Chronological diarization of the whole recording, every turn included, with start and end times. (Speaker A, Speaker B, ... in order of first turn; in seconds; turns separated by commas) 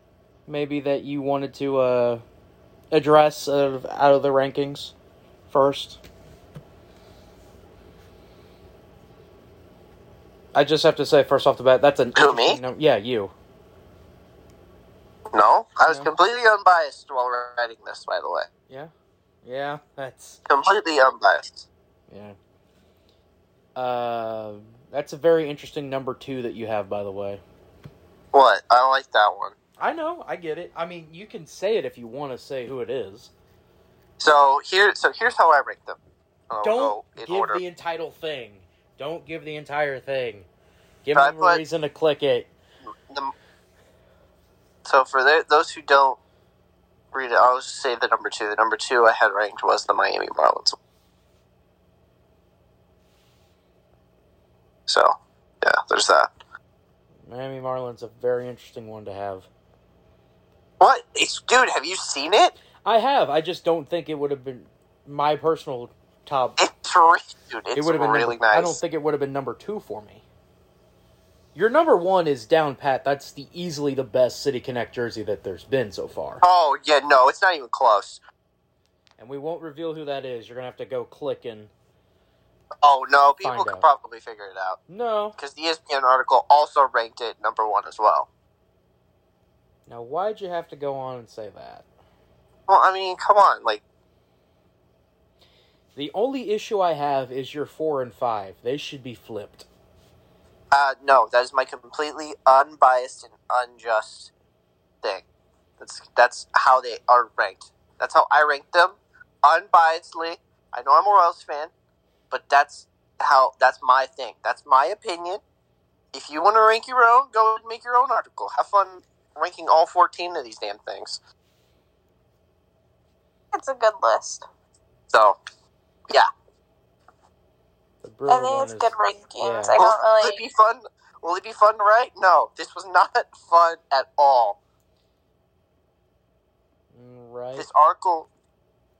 Speaker A: 0.5-2.2, Speaker A: 2.9-4.9, Speaker A: 5.5-6.0, Speaker A: 10.5-13.3, Speaker B: 12.2-12.6, Speaker B: 15.3-18.5, Speaker A: 19.4-20.4, Speaker B: 20.5-21.7, Speaker A: 22.1-22.4, Speaker A: 23.7-27.4, Speaker B: 28.3-29.6, Speaker A: 29.8-33.3, Speaker B: 34.2-36.0, Speaker B: 36.5-37.6, Speaker A: 36.6-40.5, Speaker A: 41.0-42.5, Speaker B: 41.1-41.6, Speaker B: 43.1-43.3, Speaker B: 44.8-46.2, Speaker B: 47.1-50.8, Speaker B: 54.9-56.3, Speaker A: 57.3-59.5, Speaker B: 60.8-62.5, Speaker A: 62.8-66.6, Speaker B: 66.6-68.8, Speaker A: 67.7-70.2, Speaker A: 71.5-76.4, Speaker B: 76.4-78.2, Speaker A: 79.2-81.7, Speaker B: 82.8-84.8, Speaker A: 83.4-83.9, Speaker A: 84.9-85.4, Speaker B: 85.4-88.3, Speaker A: 89.9-91.9, Speaker B: 92.7-93.8, Speaker A: 95.9-99.7, Speaker B: 100.7-104.3, Speaker B: 105.8-111.7, Speaker B: 112.3-115.4, Speaker B: 116.1-121.2, Speaker C: 123.5-124.5, Speaker B: 125.1-125.4, Speaker A: 128.0-129.8, Speaker C: 128.3-130.4, Speaker B: 129.8-134.6, Speaker A: 136.9-137.7, Speaker B: 137.6-138.3